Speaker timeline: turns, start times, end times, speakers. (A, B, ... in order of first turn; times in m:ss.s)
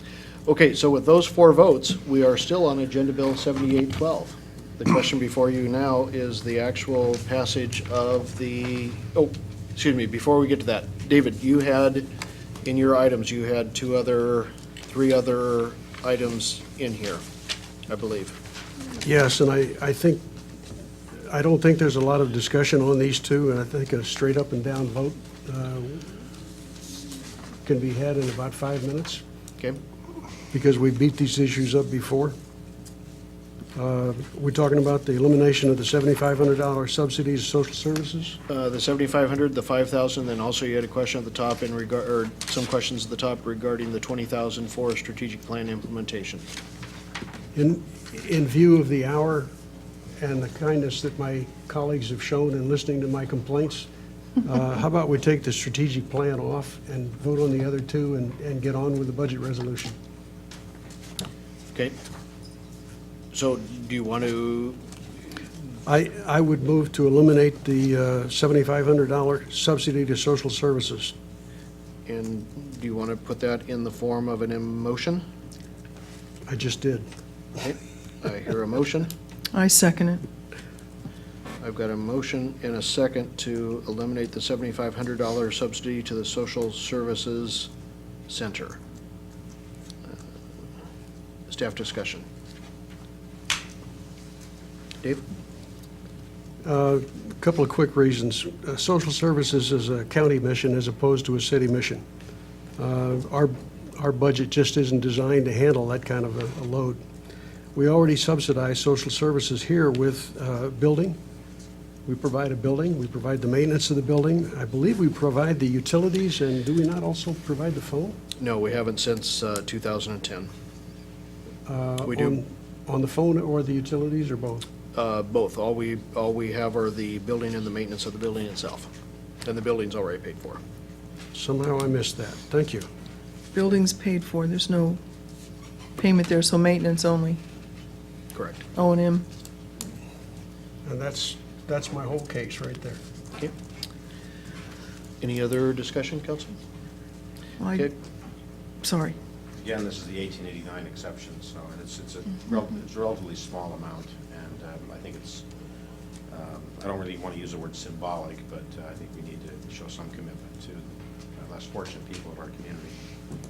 0:00.4-0:12.1 A
0:12.6-0:17.2 A
0:17.9-0:18.4 A
0:19.0-0:20.2 B
0:21.3-0:26.0 B
0:27.6-0:29.2 B
0:30.5-0:32.4 B
0:33.7-0:38.4 B
0:38.5-0:46.4 A
0:47.5-0:49.5 B
0:50.2-0:53.9 B
0:54.4-0:59.9 B
1:03.3-1:04.8 A
1:05.8-1:11.1 B
1:12.0-1:15.2 A
1:16.5-1:17.0 B
1:17.6-1:19.1 A
1:19.5-1:20.2 C
1:21.6-1:27.7 A
1:28.3-1:28.8 A
1:31.5-1:32.2 A
1:36.6-1:42.0 B
1:42.8-1:47.0 B
1:47.7-1:51.2 B
1:52.0-1:58.2 B
1:58.4-2:00.5 A
2:01.7-2:04.6 B
2:02.0-2:02.4 A
2:04.9-2:08.9 A
2:09.4-2:10.6 A
2:11.3-2:12.9 B
2:13.5-2:15.0 C
2:16.0-2:17.4 C
2:18.3-2:18.6 A
2:18.7-2:19.2 C
2:20.8-2:23.0 B
2:25.2-2:26.6 A
2:27.6-2:27.9 C
2:28.8-2:29.1 C
2:29.6-2:35.4 D
2:36.3-2:42.9 D